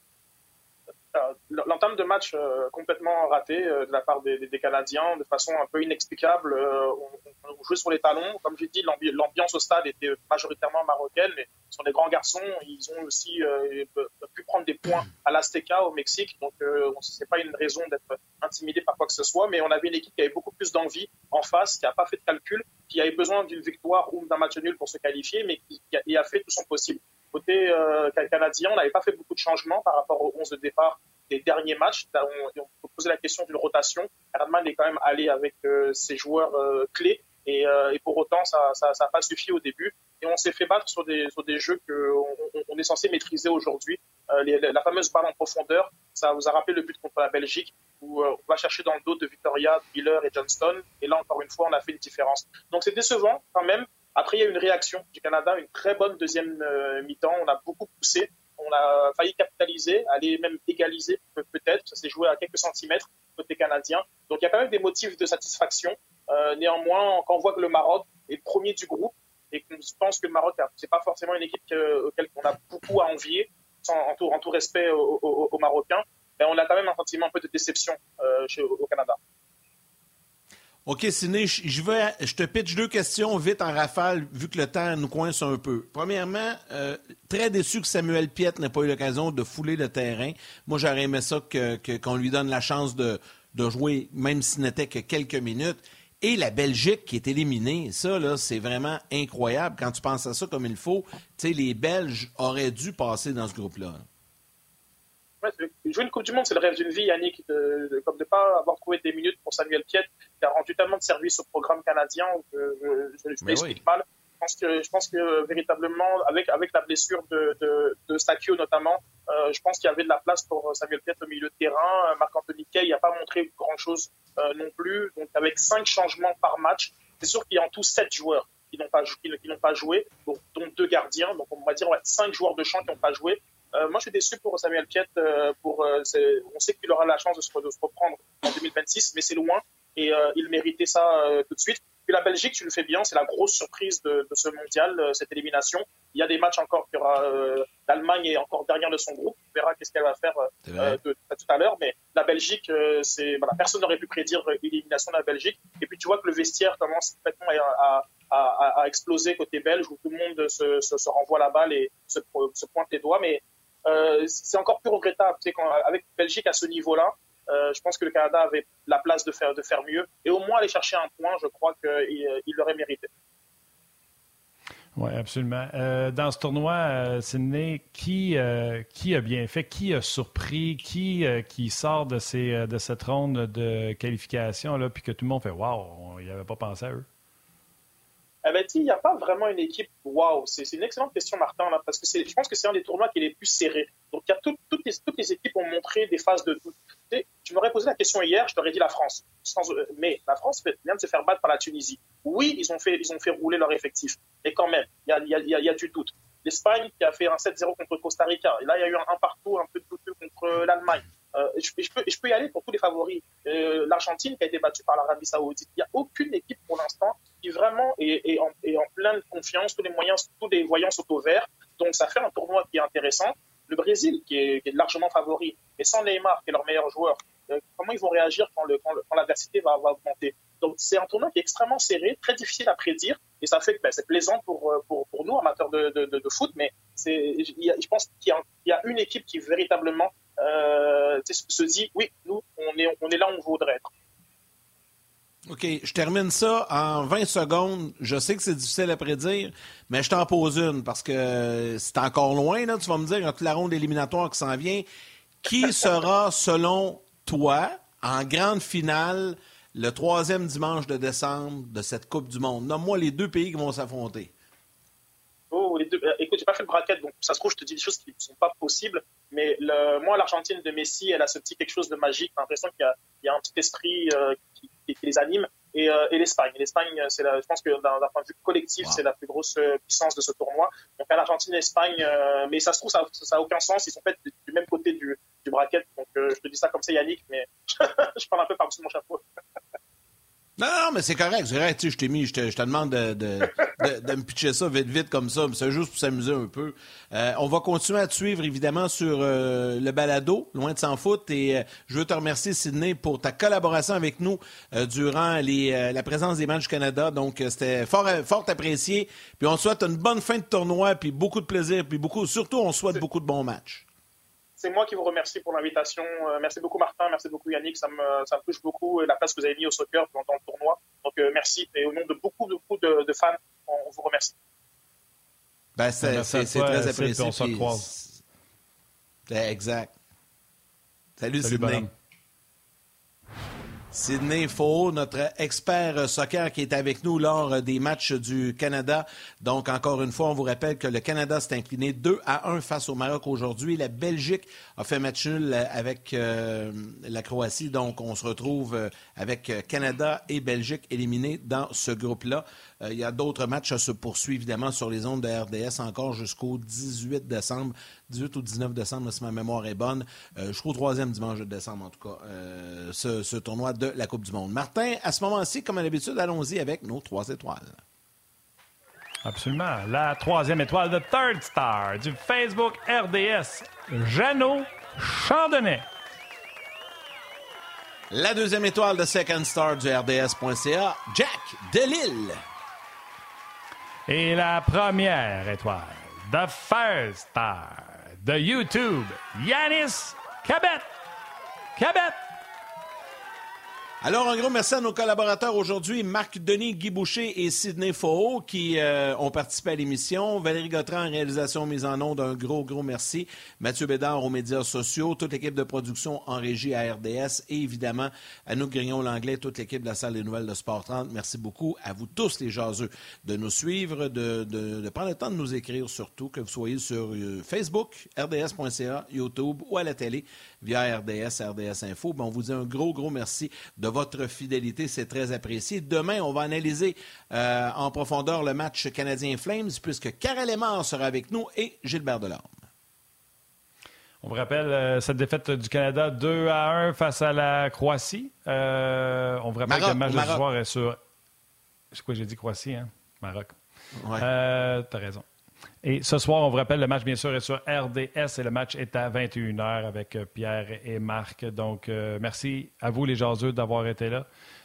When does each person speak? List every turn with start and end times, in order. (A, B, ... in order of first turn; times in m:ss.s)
0:01.1-1:19.2 A
1:20.9-1:44.1 B
1:45.4-2:53.1 A
1:53.4-1:53.8 B
2:30.6-2:31.0 B
2:55.0-3:07.0 C
3:08.4-4:03.9 A
4:05.5-4:14.8 B
4:15.4-4:24.3 B
4:25.5-4:49.2 A
4:50.6-5:13.8 B
5:14.6-5:24.4 A
5:25.8-5:28.2 B
5:26.0-5:27.9 C
5:29.3-5:29.9 B
5:31.2-5:31.9 B
5:31.4-5:31.9 C
5:33.9-6:07.8 B
6:09.2-6:15.9 C
6:18.1-6:22.4 B
6:24.1-6:30.9 C
6:31.8-6:32.2 C
6:34.0-7:12.7 B
7:14.2-7:21.0 C
7:19.7-7:20.4 B
7:21.9-7:23.6 C
7:24.0-7:24.2 B
7:24.2-7:25.2 C
7:25.8-7:34.3 C